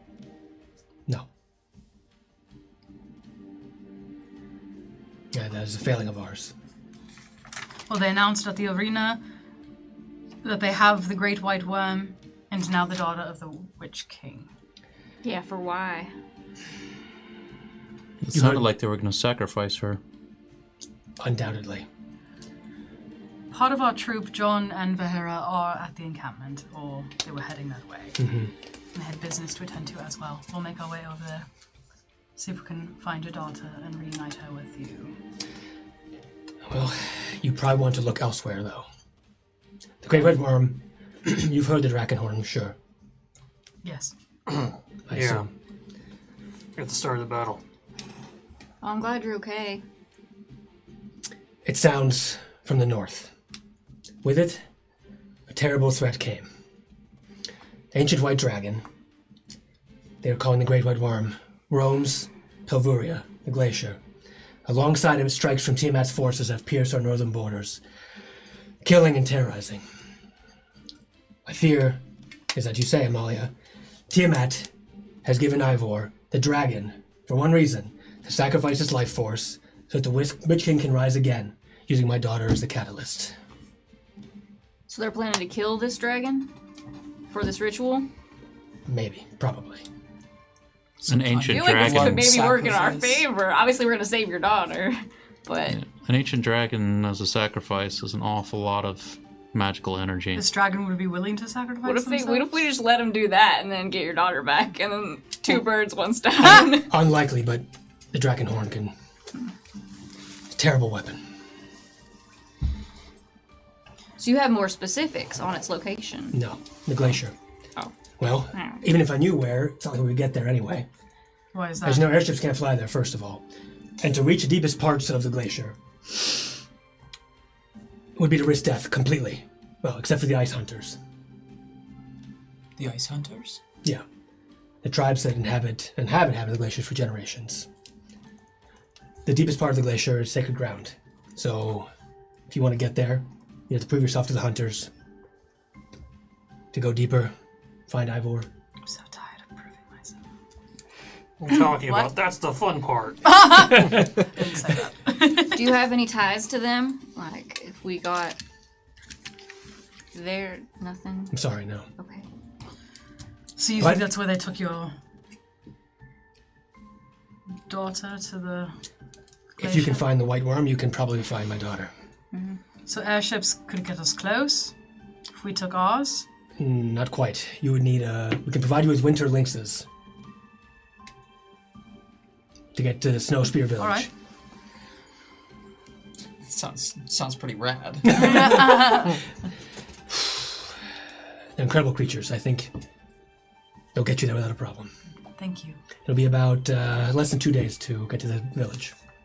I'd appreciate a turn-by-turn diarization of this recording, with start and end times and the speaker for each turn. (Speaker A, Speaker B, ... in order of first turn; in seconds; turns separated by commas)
Speaker A: 5.3-6.5, Speaker B: 7.9-9.2, Speaker B: 10.4-14.5, Speaker C: 15.2-16.1, Speaker D: 18.2-20.0, Speaker A: 18.3-18.6, Speaker A: 21.2-21.8, Speaker B: 23.5-28.2, Speaker A: 28.2-28.5, Speaker B: 28.9-31.4, Speaker B: 32.4-35.1, Speaker A: 36.7-38.9, Speaker A: 40.0-42.7, Speaker B: 43.8-44.1, Speaker E: 44.5-45.4, Speaker A: 45.1-45.5, Speaker E: 46.7-47.6, Speaker C: 48.8-49.8, Speaker A: 51.6-53.3, Speaker A: 54.2-54.6, Speaker A: 55.5-56.5, Speaker A: 57.9-58.8, Speaker A: 60.2-64.0, Speaker A: 64.7-67.8, Speaker A: 68.8-69.8, Speaker A: 71.5-72.0, Speaker A: 72.5-73.5, Speaker A: 74.1-74.7, Speaker A: 75.2-83.3, Speaker C: 84.9-86.5, Speaker C: 87.3-88.0, Speaker A: 88.9-89.8, Speaker F: 91.0-93.2, Speaker D: 91.1-92.3, Speaker C: 91.5-95.8, Speaker D: 95.7-100.4, Speaker B: 100.3-102.5, Speaker C: 101.8-106.9, Speaker A: 106.4-108.9, Speaker A: 110.5-111.2, Speaker C: 114.2-116.3, Speaker A: 116.3-117.3, Speaker A: 118.2-120.9, Speaker C: 118.5-118.8, Speaker B: 121.5-122.2, Speaker A: 121.8-123.4, Speaker A: 124.0-126.3, Speaker A: 128.2-131.0, Speaker F: 132.8-133.6, Speaker A: 134.8-137.7, Speaker A: 139.2-141.9, Speaker A: 142.5-144.9, Speaker A: 146.7-147.3, Speaker A: 147.9-148.5, Speaker B: 148.8-150.2, Speaker E: 151.4-153.3, Speaker B: 151.7-152.1, Speaker B: 153.2-155.7, Speaker C: 155.5-158.4, Speaker C: 160.1-161.3, Speaker A: 161.3-161.9, Speaker C: 162.0-162.3, Speaker B: 163.6-164.9, Speaker A: 163.8-164.1, Speaker B: 167.7-168.8, Speaker B: 169.6-170.0, Speaker A: 169.6-171.9, Speaker C: 172.3-172.6, Speaker B: 172.9-174.7, Speaker B: 175.3-176.2, Speaker A: 176.6-179.8, Speaker A: 182.7-184.1, Speaker B: 183.8-184.1, Speaker F: 186.4-188.5, Speaker A: 188.1-189.0, Speaker B: 188.2-189.2, Speaker A: 190.1-190.4, Speaker A: 191.6-192.7, Speaker A: 193.9-194.9, Speaker B: 195.4-195.8, Speaker A: 196.0-198.9